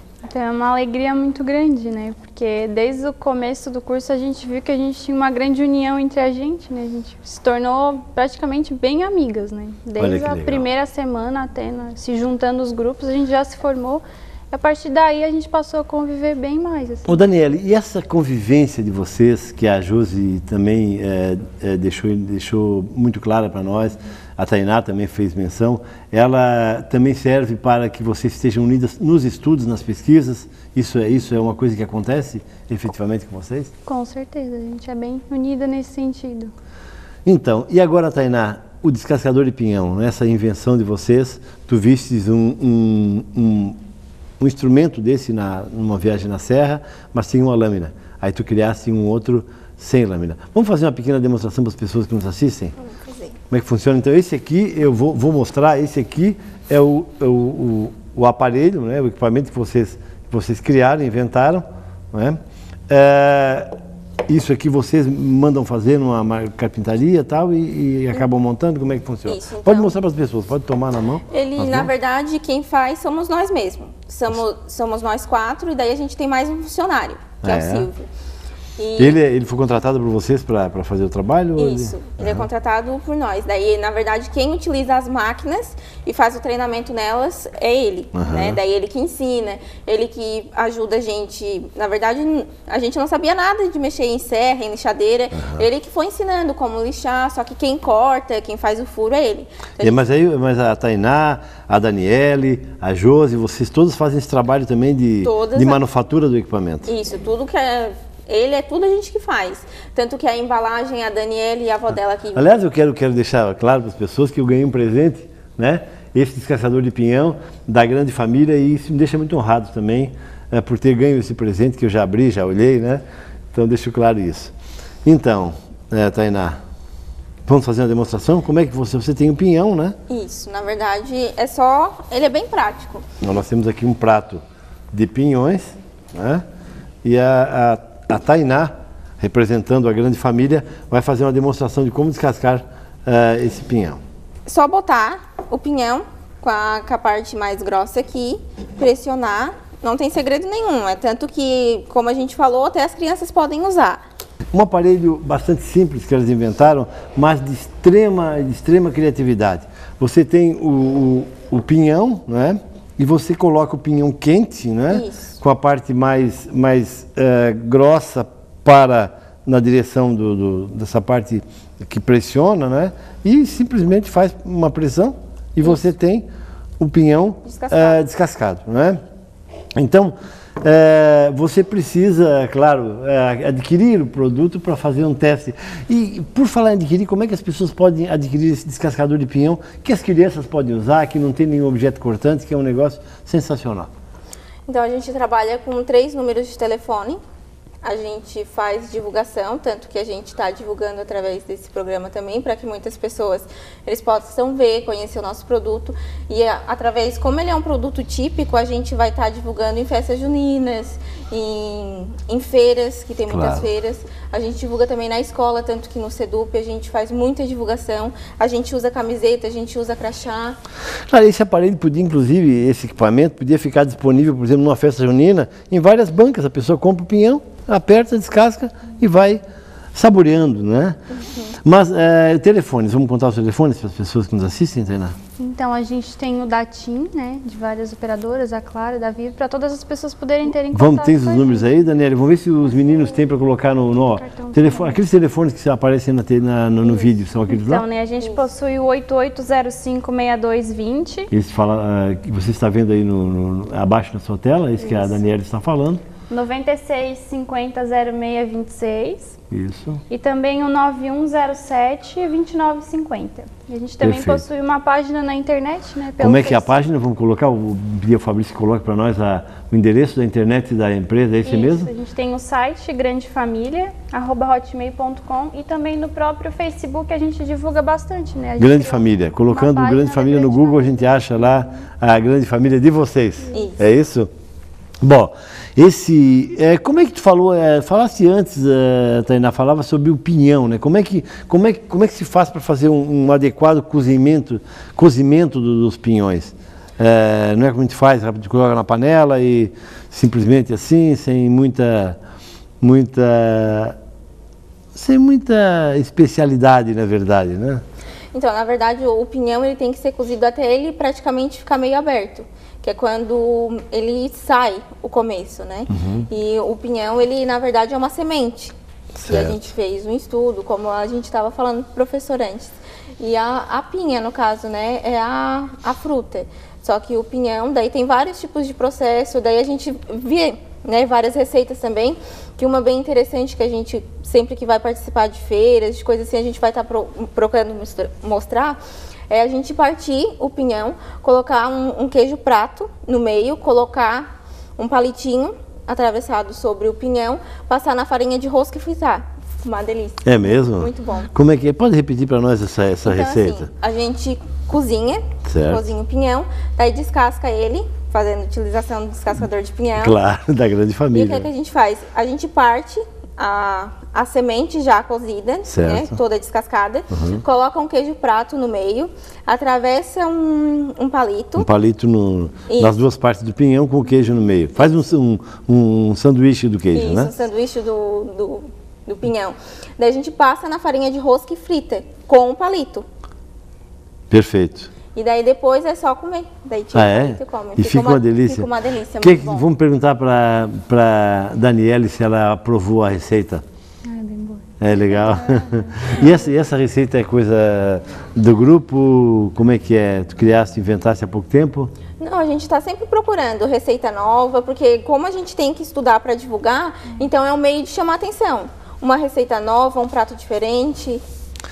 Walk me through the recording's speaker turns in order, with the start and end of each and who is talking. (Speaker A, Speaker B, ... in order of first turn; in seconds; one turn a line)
Speaker A: 0.3-17.2
Speaker B: 10.0-10.7
Speaker B: 17.1-33.7
Speaker A: 33.9-36.5
Speaker B: 37.3-43.8
Speaker B: 44.4-52.7
Speaker C: 52.8-53.4
Speaker B: 53.5-62.4
Speaker B: 62.9-63.7
Speaker B: 64.3-71.9
Speaker C: 69.3-70.0
Speaker C: 71.3-78.1
Speaker B: 77.4-77.9
Speaker C: 78.8-79.2
Speaker B: 79.0-82.5
Speaker C: 81.6-100.1
Speaker B: 88.1-88.6
Speaker B: 99.8-106.9
Speaker C: 105.2-105.8
Speaker C: 106.9-112.6
Speaker B: 112.3-124.5
Speaker B: 125.0-126.6
Speaker B: 127.5-130.0
Speaker C: 130.1-133.1
Speaker B: 133.2-136.4
Speaker B: 137.0-144.0
Speaker C: 144.5-154.0
Speaker B: 154.5-176.3
Speaker C: 164.9-165.4
Speaker B: 176.8-179.0
Speaker C: 177.4-178.1
Speaker B: 179.8-193.9
Speaker C: 194.7-197.2
Speaker C: 197.8-220.6
Speaker B: 213.3-213.7
Speaker B: 221.1-229.4
Speaker B: 229.9-231.0
Speaker C: 231.1-231.6
Speaker B: 231.6-235.2
Speaker A: 235.4-241.8
Speaker B: 240.7-247.8
Speaker A: 242.7-243.2
Speaker A: 244.1-245.0
Speaker A: 246.9-251.3
Speaker B: 251.3-256.0
Speaker A: 254.8-255.2
Speaker A: 256.3-259.3
Speaker B: 259.5-260.0
Speaker A: 260.1-266.7
Speaker B: 264.0-264.4
Speaker B: 266.2-271.9
Speaker A: 271.4-281.5
Speaker B: 278.6-284.3
Speaker C: 283.5-283.8
Speaker B: 285.0-302.2
Speaker B: 302.8-303.9
Speaker B: 304.9-307.8
Speaker C: 308.3-338.8
Speaker B: 315.9-316.2
Speaker B: 319.2-319.6
Speaker C: 339.3-351.3
Speaker B: 350.2-353.7
Speaker C: 353.1-360.2
Speaker B: 355.5-355.9
Speaker B: 360.0-361.5
Speaker C: 361.1-371.7
Speaker B: 365.7-366.1
Speaker B: 367.1-367.4
Speaker B: 371.6-377.3
Speaker C: 372.7-373.0
Speaker C: 376.9-383.1
Speaker B: 384.3-384.9
Speaker C: 385.1-389.7
Speaker B: 386.9-388.7
Speaker B: 389.2-393.6
Speaker A: 394.1-396.4
Speaker B: 394.8-401.9
Speaker C: 402.2-411.2